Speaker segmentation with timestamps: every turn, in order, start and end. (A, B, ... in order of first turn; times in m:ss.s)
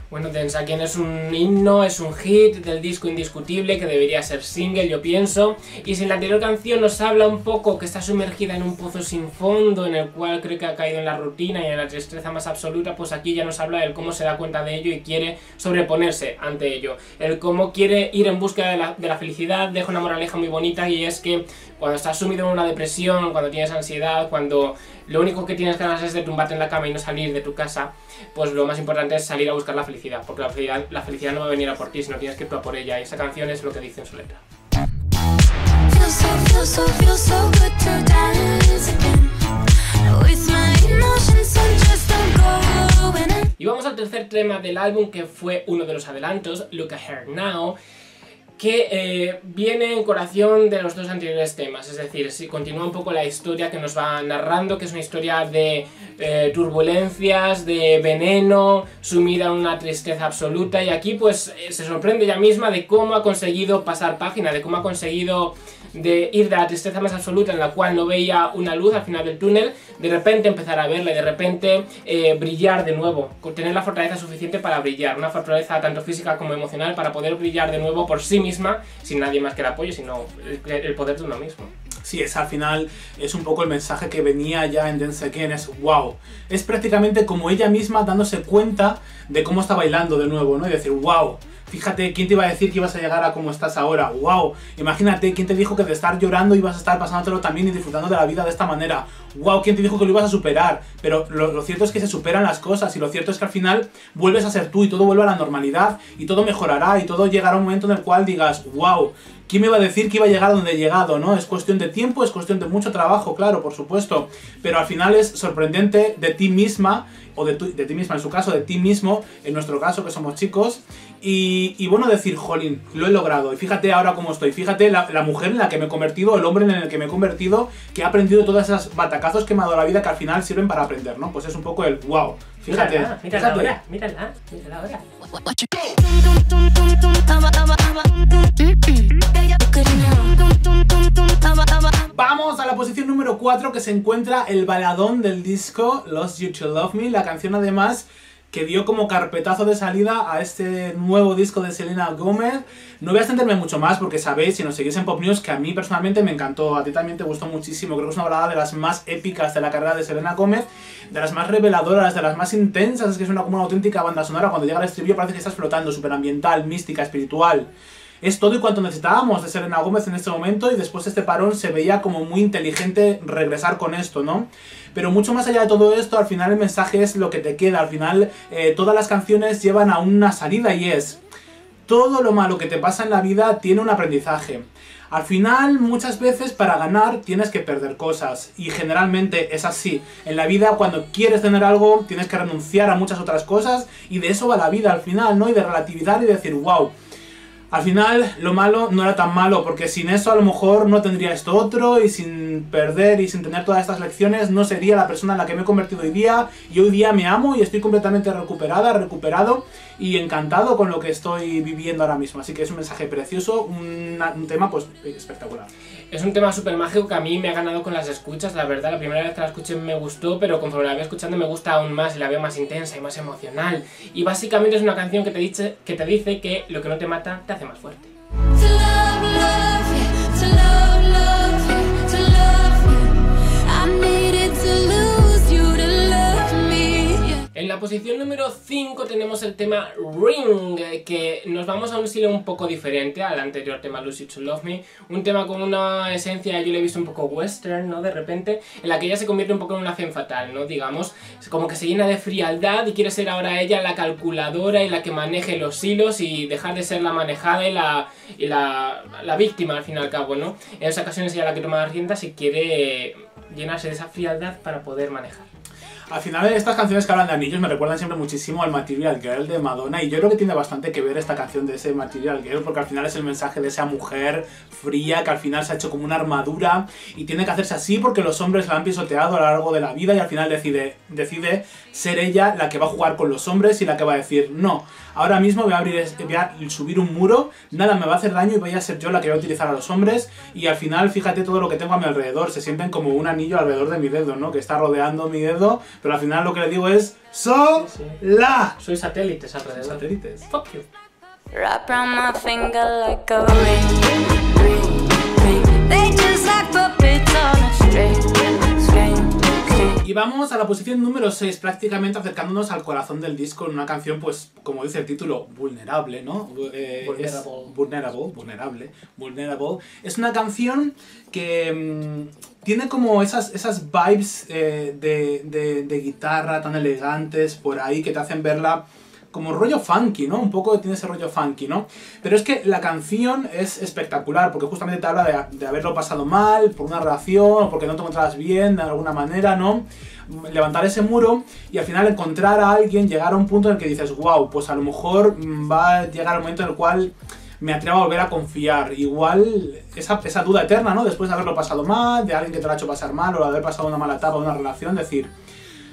0:00.1-0:34.4 A
0:35.9-0:43.5 B
0:43.6-0:47.8 A
0:48.6-1:21.7 A
1:22.0-2:13.8 C
2:12.7-2:15.0 A
2:15.3-2:22.0 B
2:22.1-2:47.7 C
2:48.2-3:01.2 C
3:01.9-3:16.9 C
3:17.7-3:35.7 C
3:36.1-3:48.1 A
3:48.5-3:57.4 B
3:57.5-4:25.5 A
4:26.1-4:58.8 C
4:57.8-4:58.2 A
4:58.8-5:00.9 A
4:59.7-5:00.5 C
5:01.5-5:10.0 B
5:10.0-5:55.3 C
5:17.0-5:17.7 A